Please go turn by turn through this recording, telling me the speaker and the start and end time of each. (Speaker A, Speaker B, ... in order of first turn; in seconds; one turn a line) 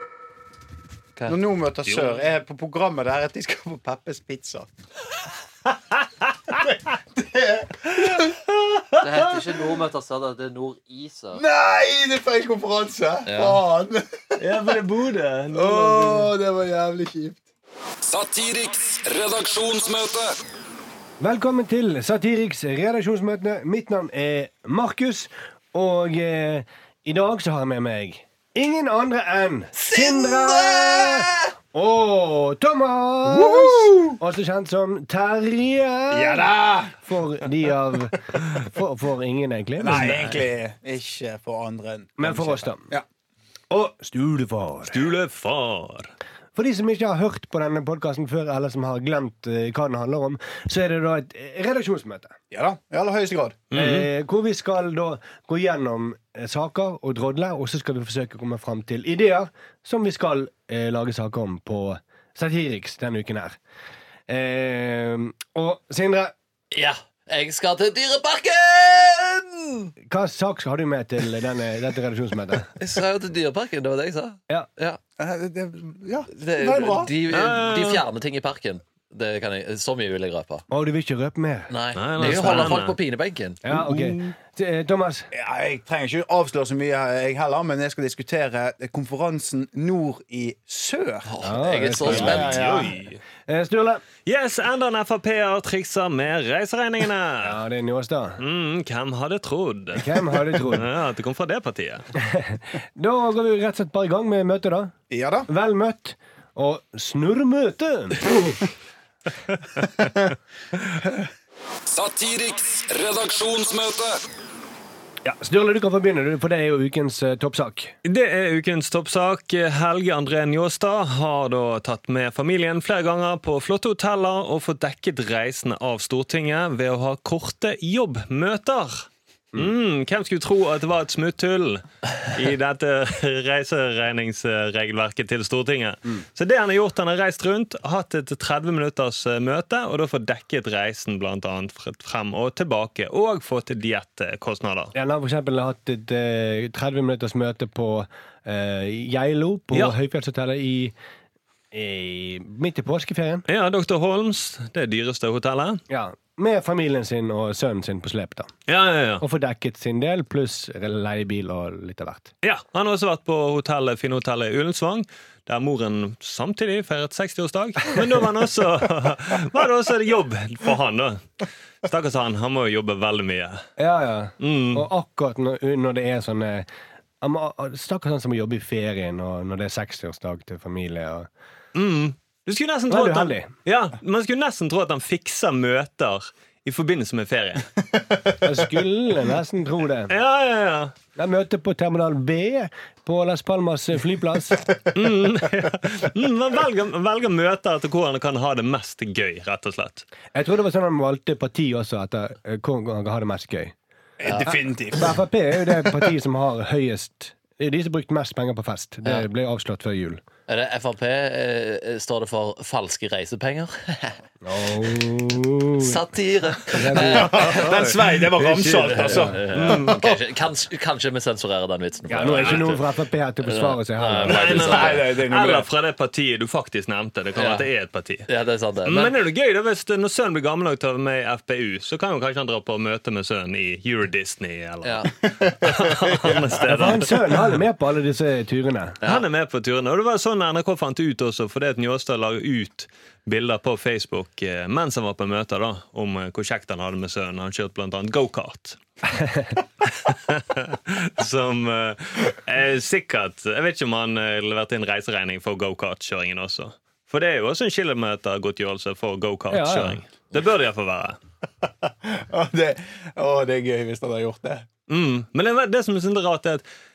Speaker A: 1.3-4.7
Speaker B: 1.9-2.2
Speaker A: 6.5-8.3
Speaker C: 9.0-11.4
Speaker A: 11.3-14.6
Speaker C: 13.2-13.6
Speaker B: 14.4-16.3
Speaker A: 15.5-17.4
Speaker D: 18.0-20.3
Speaker E: 21.2-36.5
Speaker C: 29.9-30.2
Speaker A: 33.2-34.2
Speaker A: 36.1-37.0
Speaker E: 37.0-40.4
Speaker A: 39.8-43.0
Speaker E: 42.2-42.9
Speaker E: 43.7-45.0
Speaker B: 44.9-46.1
Speaker E: 46.5-52.3
Speaker A: 52.5-53.6
Speaker B: 53.7-54.1
Speaker E: 53.7-63.6
Speaker E: 64.3-66.3
Speaker C: 66.7-69.9
Speaker E: 70.0-72.7
Speaker C: 72.8-75.0
Speaker A: 75.2-77.1
Speaker C: 76.3-80.6
Speaker B: 77.3-78.0
Speaker E: 80.7-81.7
Speaker C: 81.7-83.6
Speaker B: 82.0-82.9
Speaker E: 83.6-85.3
Speaker A: 83.7-84.2
Speaker A: 85.3-91.3
Speaker C: 91.2-92.8
Speaker E: 91.4-92.6
Speaker A: 92.0-92.9
Speaker B: 92.1-93.2
Speaker E: 93.5-94.0
Speaker B: 94.2-97.6
Speaker E: 97.4-98.4
Speaker B: 98.4-102.0
Speaker E: 99.9-100.9
Speaker E: 102.2-105.0
Speaker A: 105.1-105.5
Speaker E: 105.5-108.3
Speaker D: 111.9-114.2
Speaker E: 115.2-117.9
Speaker B: 118.0-144.9
Speaker E: 144.9-150.9
Speaker E: 151.7-153.4
Speaker B: 153.5-155.8
Speaker E: 155.9-158.5
Speaker B: 158.7-159.2
Speaker E: 159.2-162.3
Speaker B: 162.4-171.2
Speaker B: 171.8-173.6
Speaker E: 173.8-176.7
Speaker B: 174.4-174.8
Speaker E: 177.2-181.3
Speaker B: 181.7-187.7
Speaker E: 182.9-183.5
Speaker E: 188.4-190.1
Speaker B: 190.1-190.9
Speaker E: 191.2-194.6
Speaker B: 194.9-200.1
Speaker E: 200.3-203.7
Speaker A: 204.2-205.1
Speaker E: 204.4-210.2
Speaker C: 210.5-214.2
Speaker E: 214.4-216.0
Speaker C: 215.8-217.7
Speaker E: 216.7-217.3
Speaker A: 217.0-220.1
Speaker B: 217.4-220.0
Speaker C: 218.6-222.8
Speaker E: 222.1-224.6
Speaker C: 223.4-225.0
Speaker B: 224.3-228.3
Speaker A: 224.3-225.7
Speaker C: 227.3-227.7
Speaker C: 228.3-229.1
Speaker B: 228.8-237.5
Speaker C: 234.8-235.1
Speaker A: 235.4-236.4
Speaker E: 236.6-239.0
Speaker B: 239.0-248.8
Speaker B: 249.8-261.2
Speaker E: 259.5-260.0
Speaker A: 262.0-264.7
Speaker B: 264.9-266.6